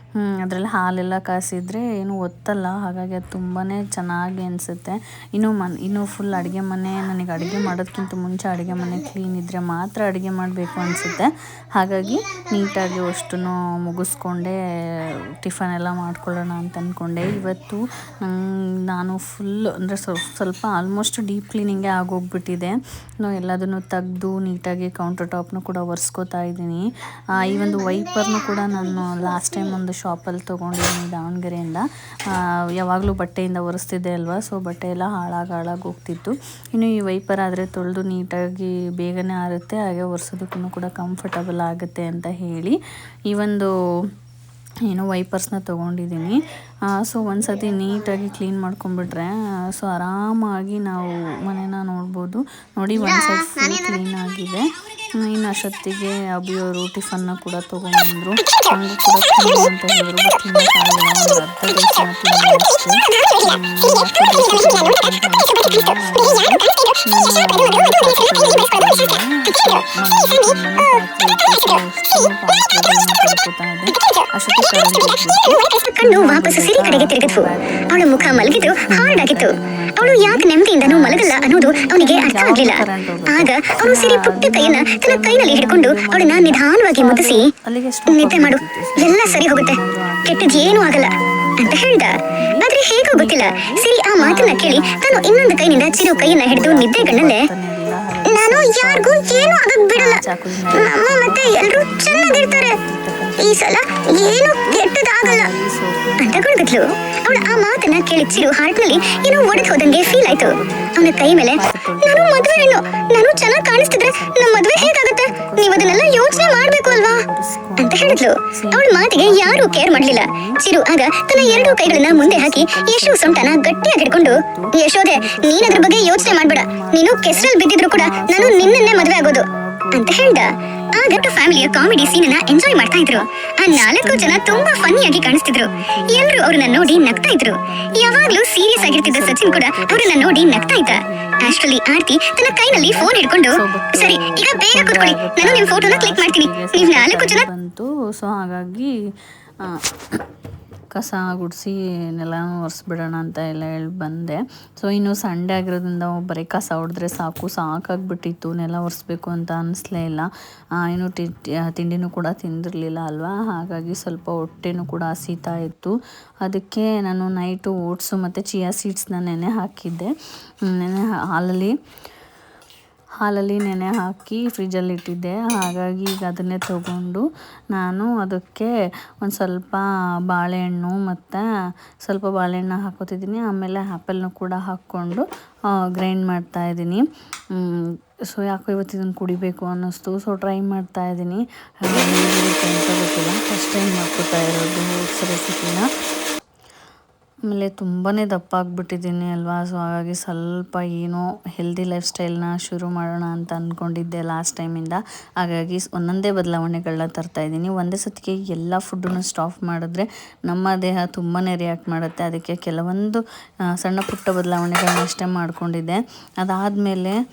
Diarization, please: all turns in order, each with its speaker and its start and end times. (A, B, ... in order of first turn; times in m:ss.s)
0:00.2-0:26.8 A
0:12.0-0:13.1 B
0:27.4-0:42.8 A
0:27.4-0:29.8 B
0:43.3-0:43.7 A
0:44.9-0:54.6 A
0:53.0-0:54.0 B
0:55.2-2:00.6 A
1:15.4-1:27.4 B
1:28.1-1:37.4 B
1:38.3-1:42.8 B
1:43.4-1:45.5 B
1:46.2-1:57.2 B
1:57.8-2:27.4 B
2:01.3-2:21.6 A
2:22.5-2:28.9 A
2:30.9-2:50.1 A
2:50.6-2:51.7 A
2:53.2-3:01.4 A
3:02.0-3:05.2 A
3:05.9-3:15.8 A
3:17.5-3:33.2 A
3:33.8-3:37.2 A